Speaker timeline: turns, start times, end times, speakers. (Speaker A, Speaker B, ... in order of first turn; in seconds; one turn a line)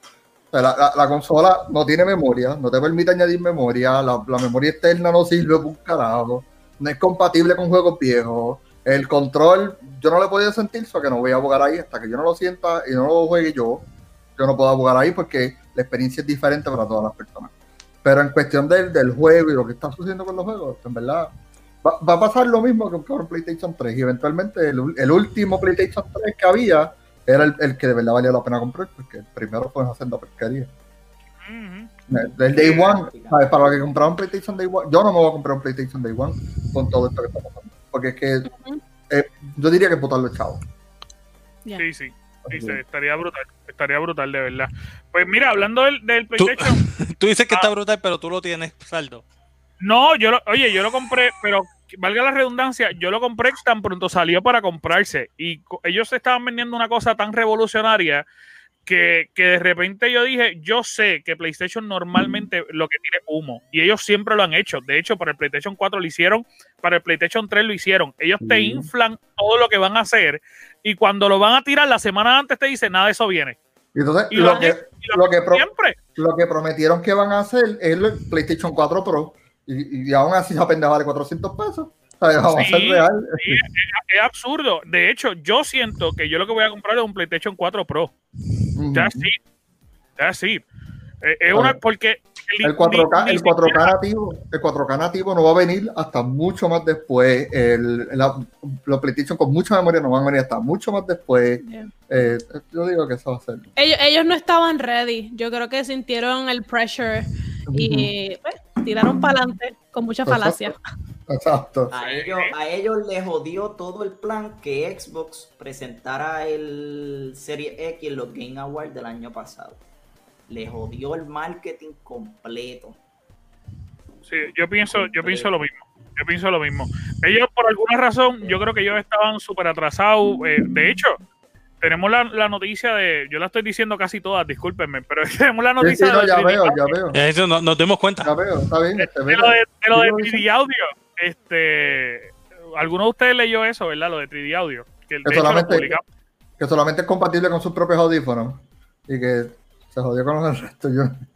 Speaker A: 0.5-13.8
Speaker A: 14.4-17.5
Speaker A: 18.0-21.3
Speaker A: 21.8-30.7
Speaker B: 31.4-31.9
Speaker A: 32.1-38.5
Speaker C: 32.5-33.9
Speaker D: 38.5-38.8
Speaker A: 39.1-40.6
Speaker B: 41.8-46.8
Speaker A: 42.4-42.8
Speaker E: 46.4-49.2
Speaker B: 49.8-58.2
Speaker B: 58.9-73.6
Speaker A: 68.4-68.9
Speaker A: 73.9-83.6
Speaker B: 74.3-76.0
Speaker B: 82.5-88.1
Speaker A: 88.8-89.3
Speaker B: 88.9-89.4
Speaker B: 90.2-90.6
Speaker B: 91.2-93.9
Speaker A: 91.5-91.8
Speaker A: 92.6-103.7
Speaker D: 101.6-101.9
Speaker D: 103.8-110.8
Speaker A: 107.7-108.1
Speaker A: 110.2-110.7
Speaker A: 111.3-111.9
Speaker C: 111.9-119.8
Speaker B: 112.0-112.5
Speaker C: 120.5-123.0
Speaker B: 124.3-131.2
Speaker C: 125.2-125.5
Speaker B: 131.8-136.9
Speaker A: 135.8-137.2
Speaker E: 137.1-138.3
Speaker A: 138.2-140.4
Speaker B: 139.0-146.0
Speaker A: 145.2-146.0
Speaker A: 146.6-151.2